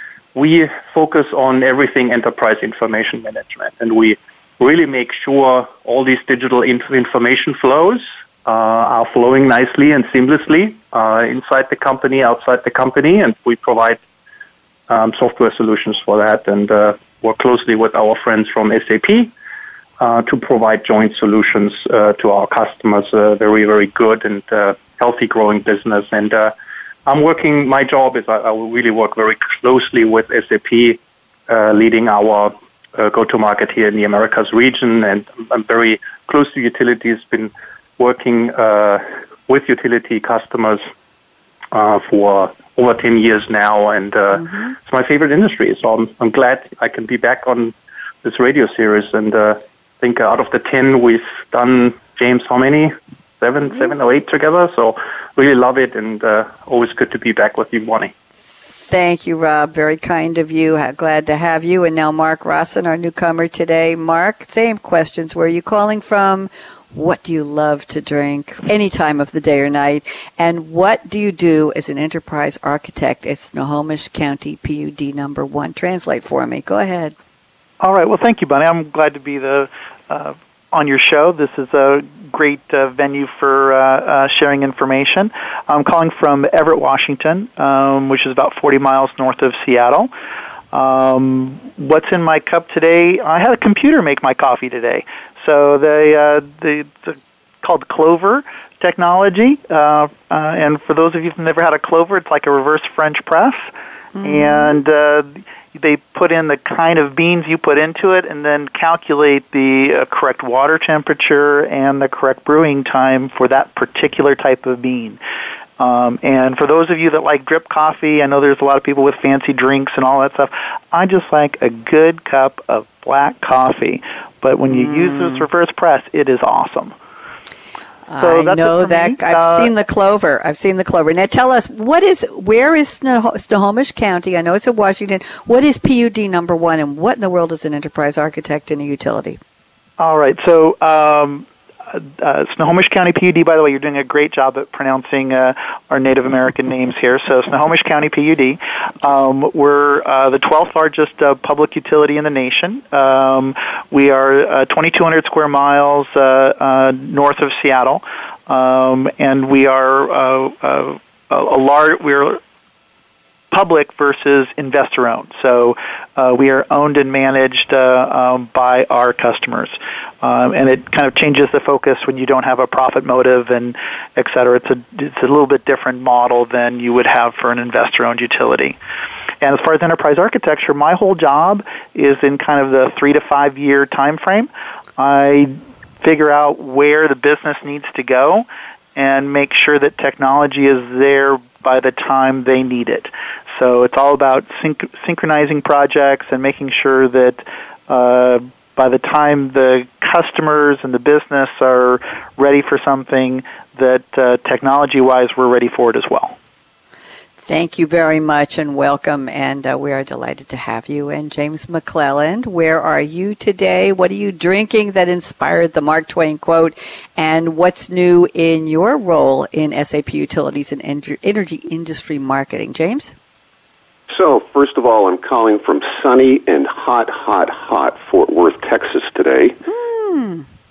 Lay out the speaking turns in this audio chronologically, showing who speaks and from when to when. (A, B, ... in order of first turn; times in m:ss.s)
0:00.4-0:14.0 A
0:14.9-0:19.3 A
0:20.0-0:26.5 A
0:27.1-0:40.8 A
0:41.7-0:58.1 A
0:58.9-1:17.1 B
1:17.8-1:30.1 C
1:30.7-1:43.7 C
1:44.1-1:44.7 B
1:44.2-1:55.2 C
1:55.8-2:06.9 C
2:04.7-2:05.4 B
2:08.1-2:19.4 B
2:08.2-2:09.7 C
2:20.0-2:42.4 C
2:43.5-2:58.8 C
2:59.4-3:26.4 C
3:27.4-3:43.1 B
3:44.1-3:49.6 D
3:49.7-3:50.4 B